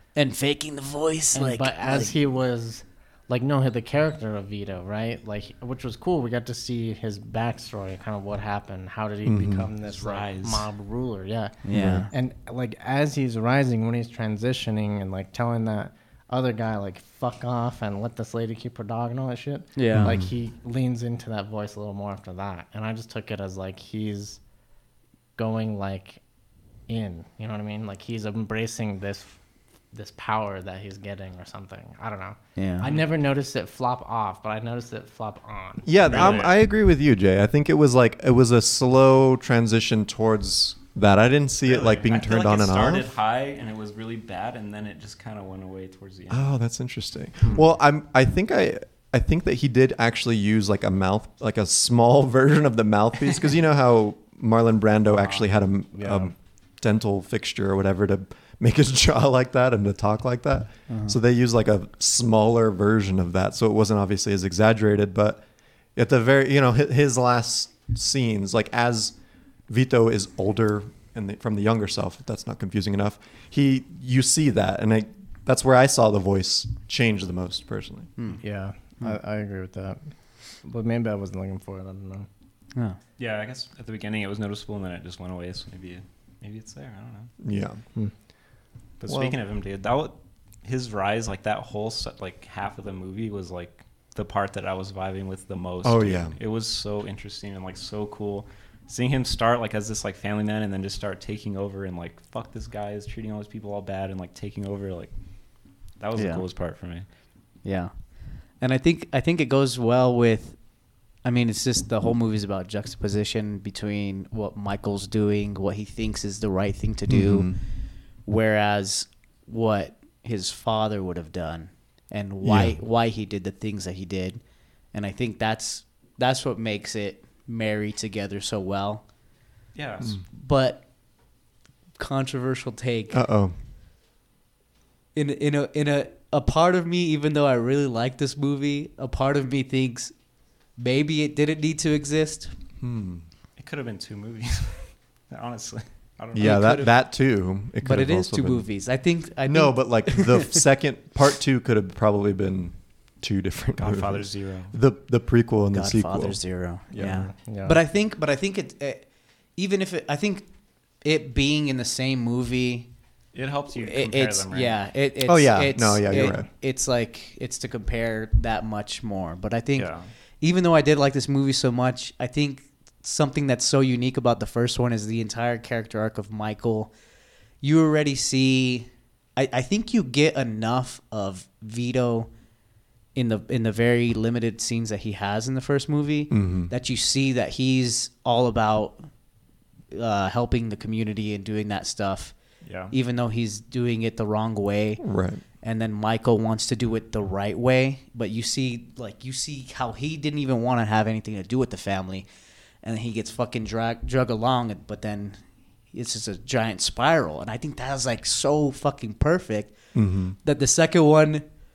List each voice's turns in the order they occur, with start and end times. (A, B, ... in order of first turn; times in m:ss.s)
0:00.1-0:02.1 A
0:01.3-0:24.4 B
0:09.2-0:09.7 C
0:09.8-0:10.7 D
0:11.6-0:12.1 A
0:11.7-0:12.1 C
0:19.8-0:20.2 A
0:19.9-0:20.3 C
0:25.4-0:26.2 B
0:26.9-0:29.4 B
0:29.9-0:36.5 B
0:32.6-0:32.9 A
0:35.8-0:43.1 C
0:36.0-0:36.5 D
0:41.6-0:46.5 D
0:46.3-1:05.4 C
0:55.9-0:56.3 B
1:00.9-1:01.2 A
1:06.0-1:09.1 C
1:09.7-1:18.1 C
1:18.4-1:20.0 B
1:20.6-1:22.3 B
1:23.2-1:27.3 D
1:27.4-1:27.8 C
1:29.0-1:45.1 D
1:29.1-1:29.4 C
1:35.8-1:36.4 C
1:46.0-1:47.0 D
1:46.2-1:46.4 A
1:47.6-1:47.9 A
1:48.6-1:50.6 A
1:51.2-1:57.5 A
1:57.1-1:57.6 C
1:58.2-2:04.4 A
2:02.4-2:02.8 C
2:04.9-2:09.0 A
2:09.7-2:10.1 D
2:10.2-2:10.8 A
2:12.0-2:13.2 A
2:13.1-2:13.5 C
2:15.1-2:20.1 A
2:20.8-2:22.5 A
2:22.8-2:23.2 C
2:23.6-2:26.8 D
2:26.3-2:28.7 C
2:26.4-2:26.9 A
2:27.8-2:30.6 A
2:29.5-2:37.3 C
2:33.8-2:34.7 D
2:35.7-2:40.5 A
2:37.1-2:37.8 B
2:41.0-2:42.9 A
2:43.3-2:44.8 D
2:43.7-2:56.9 A
2:45.2-2:46.5 C
2:49.7-2:50.1 D
2:57.6-3:02.3 A
3:03.1-3:09.1 A
3:06.3-3:06.7 C
3:09.9-3:12.3 A
3:12.6-3:12.9 D
3:12.9-3:15.0 A
3:15.0-3:15.4 C
3:15.6-3:22.2 A
3:22.8-3:25.4 A
3:25.9-3:29.8 A
3:29.9-3:30.4 C
3:30.4-3:31.4 A